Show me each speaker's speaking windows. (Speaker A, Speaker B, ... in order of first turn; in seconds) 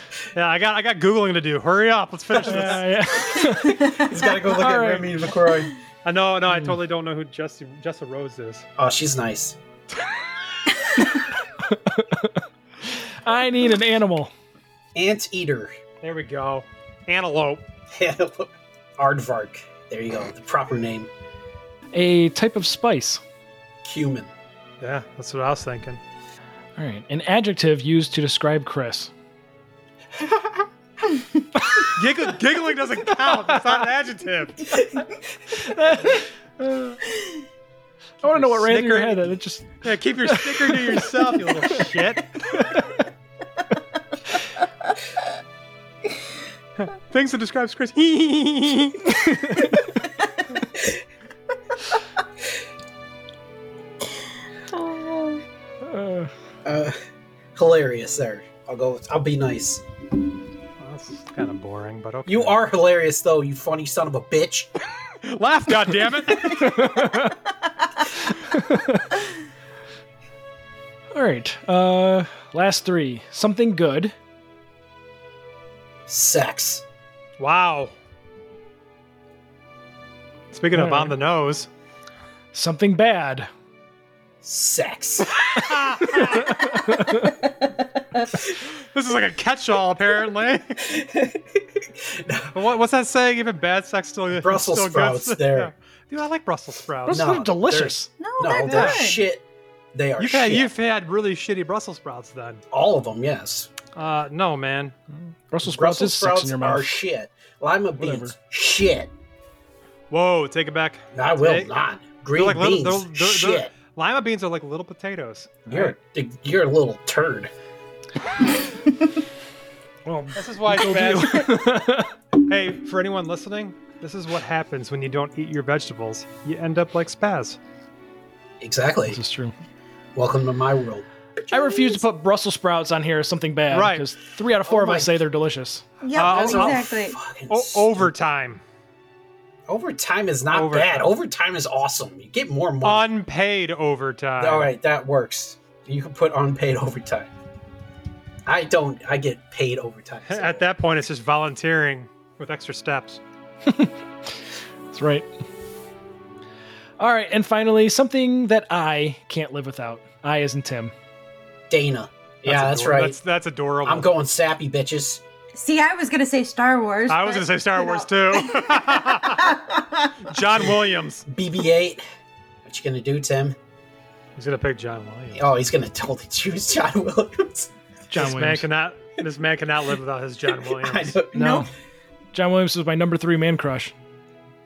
Speaker A: 0.3-2.9, 6.0-8.7, 16.0-17.6, 24.8-26.0, 31.8-34.8, 38.2-42.4, 46.8-49.1, 60.8-62.5, 65.2-66.9, 77.4-77.9, 80.5-81.7, 85.4-86.6, 88.5-90.9, 92.5-97.3, 98.5-99.0, 100.2-102.6, 103.9-104.9, 110.1-111.7, 112.3-115.9, 120.3-121.6, 122.4-127.6, 133.7-134.1, 136.1-136.9, 137.5-138.6, 140.5-141.1, 142.8-144.7, 150.3-153.2, 162.4-164.1, 167.1-169.6, 170.2-171.2, 174.4-175.5, 178.1-181.2
Speaker B: 2.4-4.0, 4.5-5.1, 11.6-14.3, 21.9-23.2, 26.8-29.1, 35.5-37.0, 38.2-41.1, 42.5-42.8, 49.2-49.7, 55.8-56.3, 66.5-67.4, 68.3-69.1, 71.1-74.1, 80.7-81.1, 82.5-83.5, 86.5-87.3, 97.1-98.1, 105.5-107.0, 108.0-108.3, 120.0-122.1, 129.1-129.5, 131.5-135.8, 153.7-153.9, 154.9-155.3, 157.0-160.9, 178.1-178.7, 181.3-181.7, 182.3-183.9
Speaker C: 3.7-5.7, 8.8-9.6, 14.9-15.7, 17.9-21.1, 23.8-24.3, 30.2-30.5, 56.6-57.0, 57.5-59.8, 62.2-64.7, 76.1-76.8, 84.4-85.4, 90.8-92.5, 94.3-95.7, 97.1-99.4, 99.9-100.7, 102.7-103.7, 105.6-109.1, 111.1-113.7, 115.7-117.5, 128.6-129.2, 130.1-132.0, 134.6-135.2, 136.2-138.1, 139.7-143.1, 144.4-147.3, 148.4-150.6, 161.7-163.2, 163.8-165.2, 171.2-172.0, 172.6-173.6, 175.3-177.7, 180.7-181.7
Speaker D: 3.8-4.1, 54.7-55.4, 98.2-99.2, 136.0-137.2, 165.5-170.2, 181.3-181.7